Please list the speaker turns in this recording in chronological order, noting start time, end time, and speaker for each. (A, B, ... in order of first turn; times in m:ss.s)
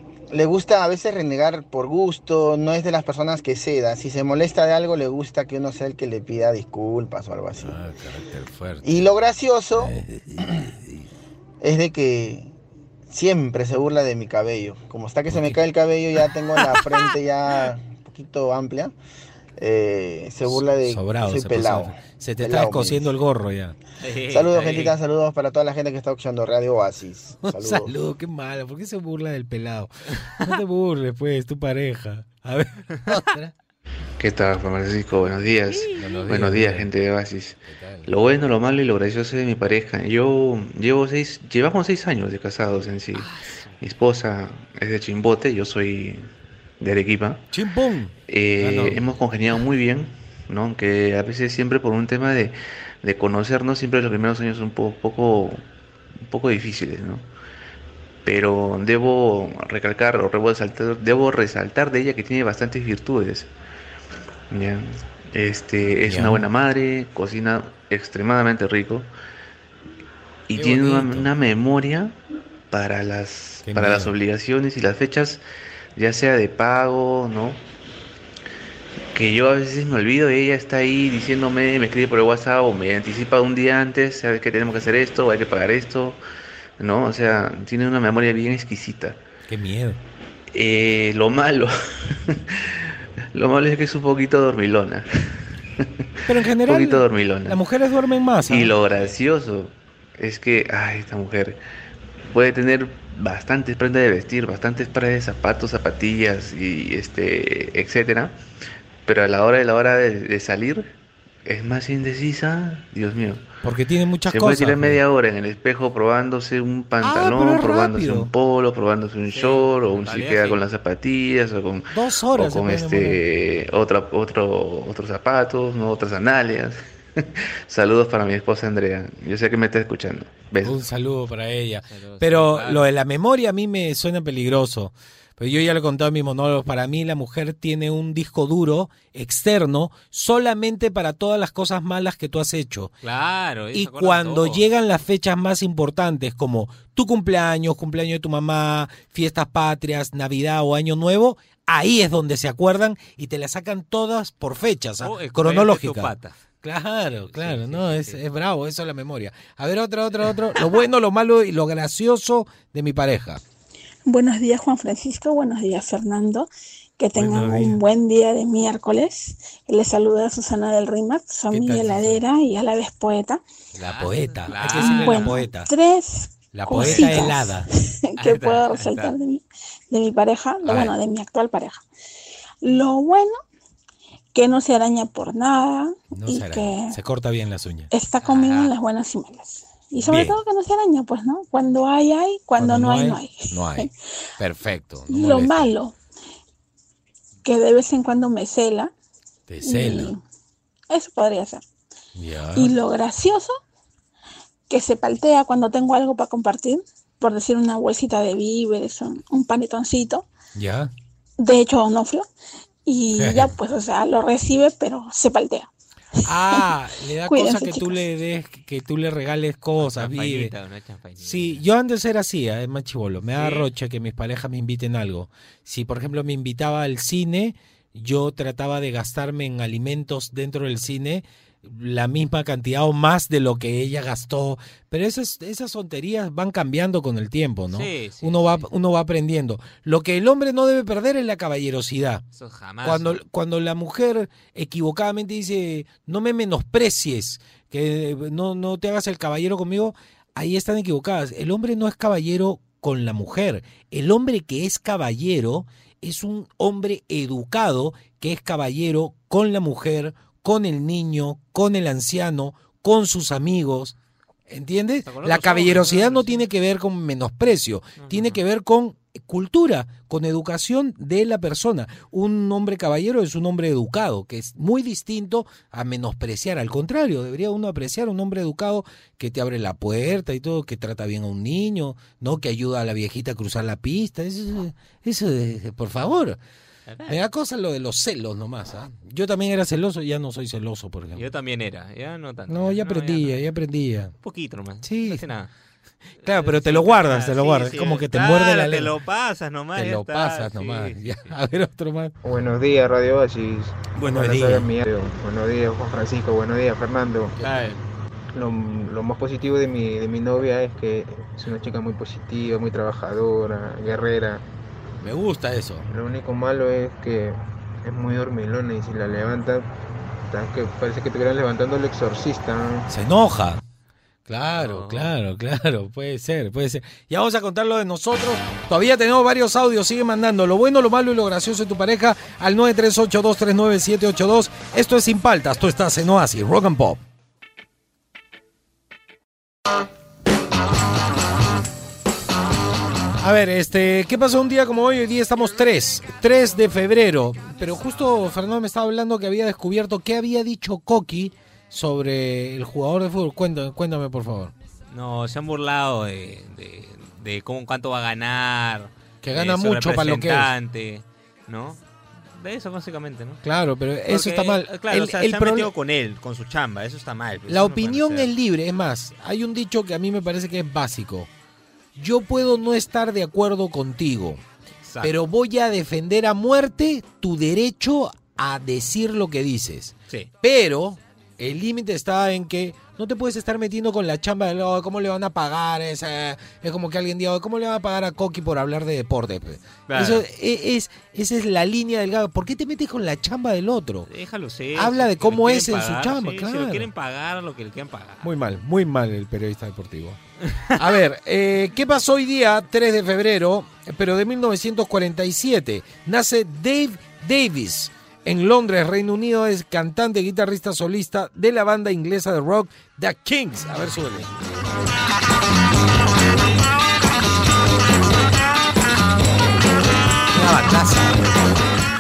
0:00.3-0:07.8 A
0:07.6-0:09.0 B
0:08.8-0:10.7 A
0:09.8-0:11.1 B
0:11.6-0:12.6 A
0:13.1-0:18.9 A
0:15.3-0:15.6 B
0:19.6-0:23.1 A
0:20.5-0:23.8 B
0:24.0-0:25.0 C
0:24.3-0:27.9 A
0:27.4-0:33.5 B
0:34.2-0:43.3 D
0:35.7-0:36.4 C
0:36.0-0:36.9 B
0:37.7-0:38.1 B
0:43.1-0:43.8 C
0:43.8-0:46.3 D
0:46.8-0:47.4 D
0:47.5-0:49.1 B
0:48.3-0:55.6 D
0:56.2-0:57.3 D
0:58.2-1:03.5 D
1:04.5-1:09.1 D
1:06.0-1:06.5 B
1:10.5-1:12.2 D
1:10.5-1:11.3 B
1:12.7-1:15.4 D
1:13.6-1:14.1 B
1:16.0-1:17.6 D
1:19.1-1:26.2 D
1:26.8-1:29.2 D
1:29.5-1:30.0 B
1:30.5-1:32.6 D
1:33.3-1:37.6 D
1:36.3-1:38.8 B
1:38.4-1:41.6 D
1:38.7-1:39.2 C
1:42.3-1:48.4 D
1:49.1-1:50.9 D
1:51.5-1:53.4 D
1:53.6-1:55.0 B
1:54.2-2:10.8 D
1:57.0-1:58.3 B
1:59.3-2:00.6 C
2:01.9-2:03.2 B
2:10.6-2:22.9 B
2:11.8-2:12.9 C
2:23.0-2:24.6 C
2:23.7-2:43.4 B
2:35.0-2:36.4 C
2:37.3-2:38.2 C
2:44.1-2:53.4 E
2:47.2-2:47.8 B
2:51.5-2:52.2 B
2:53.8-2:55.7 B
2:53.8-2:55.5 C
2:54.7-3:01.8 E
2:56.5-2:57.7 B
2:56.7-2:57.3 C
2:58.2-2:59.2 C
3:00.6-3:01.0 B
3:02.6-3:03.4 E
3:04.3-3:07.0 E
3:06.1-3:07.9 B
3:07.9-3:13.9 E
3:08.2-3:08.7 C
3:10.0-3:10.4 B
3:12.6-3:15.7 B
3:15.1-3:15.9 E
3:17.4-3:18.9 E
3:19.5-3:20.1 B
3:19.6-3:20.2 E
3:20.9-3:21.6 E
3:22.2-3:22.8 B
3:22.6-3:23.6 E
3:24.7-3:30.3 E
3:30.6-3:30.9 B
3:31.4-3:32.3 E
3:32.9-3:35.7 E
3:33.1-3:33.6 B
3:36.2-3:40.5 B
3:36.3-3:38.1 E
3:39.8-3:41.6 C
3:41.2-4:02.2 B
3:43.4-3:43.7 C
3:57.7-3:58.7 C
4:02.4-4:03.2 C
4:02.8-4:24.0 B
4:24.5-4:46.4 B
4:25.1-4:26.5 C
4:28.0-4:28.4 C
4:46.9-4:47.2 C
4:47.1-4:51.3 B
4:51.2-4:53.4 C
4:52.5-4:54.1 B
4:54.2-4:55.5 C
4:54.8-4:55.3 B
4:56.2-4:58.9 B
4:56.2-5:01.4 C
4:59.8-5:02.2 B
5:02.2-5:07.4 F
5:04.0-5:04.7 B
5:07.4-5:07.8 B
5:07.4-5:07.8 C
5:08.3-5:14.4 F
5:15.0-5:15.9 B
5:15.9-5:19.7 F
5:20.3-5:22.9 F
5:22.9-5:23.6 B
5:24.3-5:37.0 B
5:24.6-5:25.1 C
5:43.2-5:54.5 B
5:54.9-6:01.8 C
5:59.2-6:00.5 B
6:02.3-6:03.4 C
6:03.4-6:05.7 B
6:04.1-6:08.3 C
6:07.5-6:11.3 B
6:12.0-6:14.4 B
6:14.8-6:15.2 C
6:15.0-6:34.1 B
6:29.9-6:30.2 C
6:34.1-6:38.3 C
6:34.7-6:36.9 B
6:38.2-6:40.2 B
6:40.8-6:54.4 B
7:00.3-7:01.4 B